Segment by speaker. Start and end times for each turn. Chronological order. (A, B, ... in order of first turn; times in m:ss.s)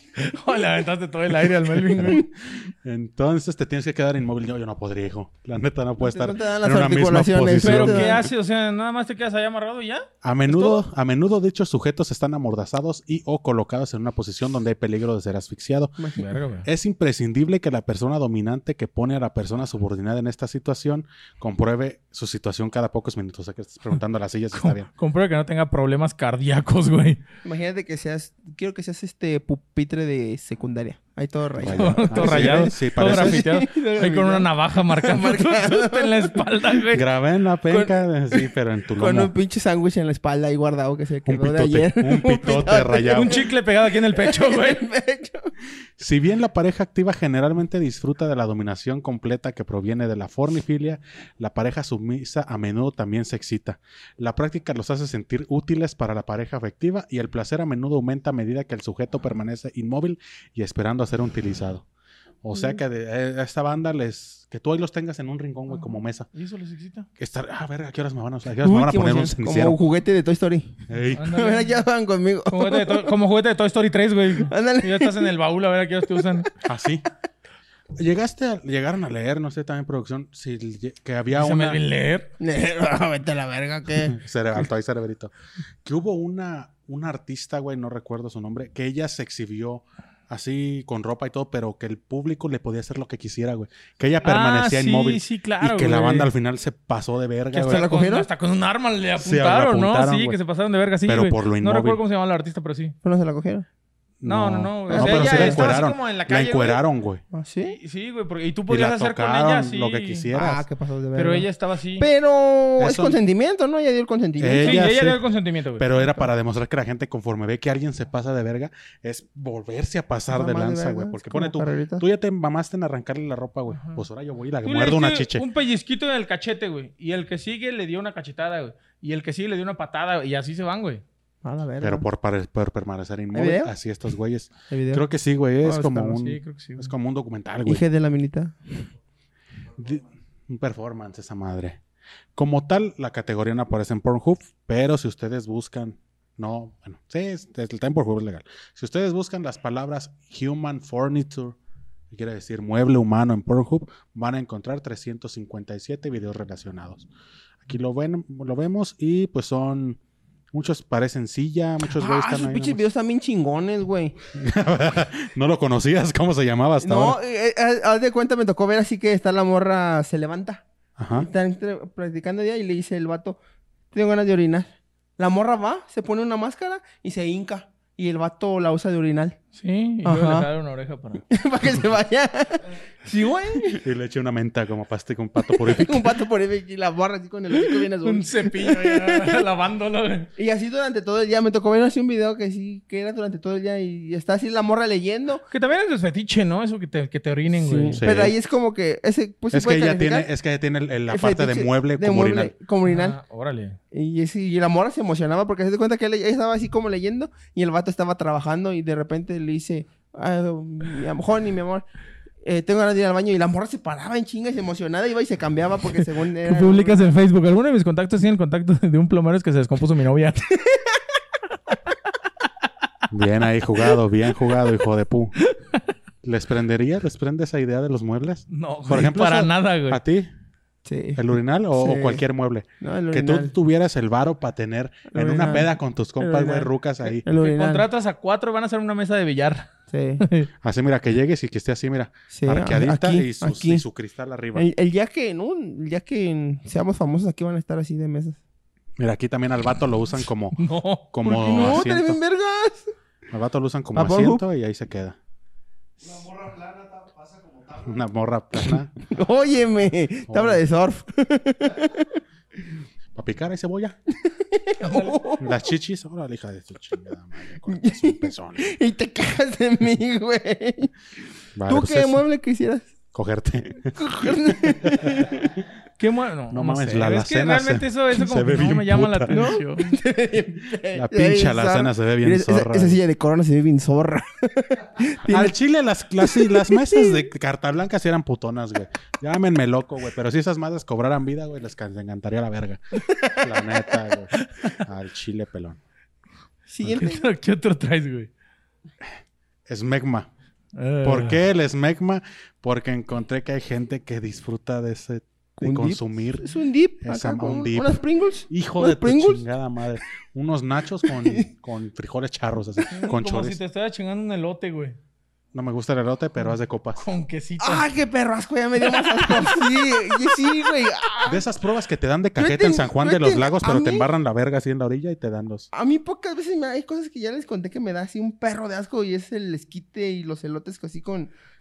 0:00.2-0:02.3 A
0:02.0-0:08.3 B
0:06.0-0:08.2 C
0:07.6-0:10.8 A
0:10.2-0:16.0 B
0:16.0-0:16.3 C
0:16.2-0:16.7 A
0:16.6-0:24.9 B
0:24.5-0:27.2 A
0:27.4-0:36.5 C
0:31.6-0:33.4 B
0:31.7-0:37.0 A
0:36.9-0:39.3 B
0:37.7-0:43.5 C
0:41.2-0:43.4 B
0:43.1-0:44.8 A
0:44.1-0:45.5 C
0:46.0-1:01.8 B
1:02.4-1:06.3 B
1:06.3-1:07.1 A
1:07.2-1:09.8 B
1:08.6-1:13.1 C
1:10.9-1:11.3 B
1:11.1-1:11.8 A
1:12.5-1:16.5 A
1:14.4-1:15.3 C
1:16.6-1:17.0 B
1:18.0-1:21.8 B
1:21.3-1:22.3 A
1:22.4-1:24.2 C
1:24.0-1:25.3 B
1:25.8-1:37.9 B
1:34.2-1:36.3 A
1:37.5-1:43.0 A
1:37.6-1:38.3 C
1:39.2-1:40.4 B
1:41.0-1:42.0 B
1:43.0-1:43.6 C
1:44.2-1:47.2 B
1:44.2-1:46.8 A
1:44.9-1:45.7 C
1:47.3-1:47.8 C
1:47.7-1:50.3 A
1:48.7-1:50.6 B
1:50.3-1:51.5 C
1:51.2-1:52.1 A
1:52.0-1:54.9 C
1:52.8-1:53.2 B
1:54.4-1:55.2 B
1:54.6-1:56.0 A
1:55.8-2:05.4 B
2:00.3-2:02.0 C
2:03.7-2:04.0 A
2:04.6-2:11.0 A
2:11.4-2:12.0 C
2:11.8-2:17.8 B
2:13.3-2:13.7 C
2:14.7-2:15.0 C
2:15.6-2:16.1 C
2:15.9-2:16.9 A
2:17.6-2:18.8 C
2:19.7-2:21.8 B
2:22.4-2:31.6 B
2:32.1-2:37.1 B
2:37.6-2:40.0 B
2:40.5-2:42.8 B
2:41.8-2:44.2 C
2:44.3-2:47.2 B
2:46.8-2:53.4 C
2:51.0-2:51.3 B
2:53.9-2:59.4 C
2:59.5-3:01.2 A
3:00.0-3:00.5 C
3:01.3-3:03.8 C
3:03.6-3:06.1 B
3:05.4-3:09.4 C
3:07.5-3:10.3 A
3:10.4-3:15.4 C
3:15.5-3:18.0 A
3:17.6-3:20.3 C
3:18.0-3:18.3 B
3:19.5-3:22.5 B
3:21.1-3:23.2 C
3:22.8-3:23.8 A
3:23.9-3:31.8 C
3:32.4-3:37.2 C
3:36.4-3:40.5 A
3:40.6-3:41.0 C
3:43.1-3:45.4 B
3:45.4-3:45.8 A
3:46.2-3:50.3 B
3:48.5-3:50.0 A
3:50.8-3:51.2 C
3:51.2-3:57.2 B
3:51.7-3:52.2 C
3:52.8-3:53.5 C
3:55.1-3:56.7 C
3:57.2-3:57.8 C
3:57.3-3:59.7 A
3:59.9-4:00.2 C
4:00.2-4:00.5 A
4:00.6-4:04.7 B
4:02.3-4:03.8 C
4:04.5-4:08.4 C
4:09.0-4:10.6 B
4:10.5-4:11.8 A
4:11.1-4:12.2 B
4:11.2-4:12.9 C
4:13.3-4:15.2 B
4:13.9-4:14.4 C
4:17.6-4:18.9 B
4:19.0-4:22.2 C
4:20.3-4:20.6 B
4:23.1-4:24.0 B
4:24.2-4:25.6 C
4:24.8-4:25.2 A
4:25.4-4:28.7 B
4:27.7-4:30.9 C
4:31.6-4:32.2 B
4:31.7-4:32.9 C
4:33.1-4:35.4 B
4:33.9-4:35.6 C
4:36.0-4:40.0 A
4:36.5-4:39.5 B
4:39.3-4:45.5 C
4:40.9-4:43.0 B
4:45.2-4:55.8 B
4:46.2-4:47.2 C
4:53.0-4:53.9 C
4:54.3-4:54.8 A
4:56.7-4:57.2 C
4:56.8-4:58.3 A
4:59.7-5:00.3 B
5:00.7-5:01.4 A
5:01.0-5:13.6 B
5:05.6-5:09.4 C
5:11.0-5:11.5 C
5:12.9-5:15.0 A
5:15.5-5:17.0 B
5:17.0-5:17.9 A
5:17.6-5:21.4 C
5:18.8-5:20.5 A
5:21.2-5:25.7 B
5:22.4-5:24.1 C
5:25.7-5:31.3 C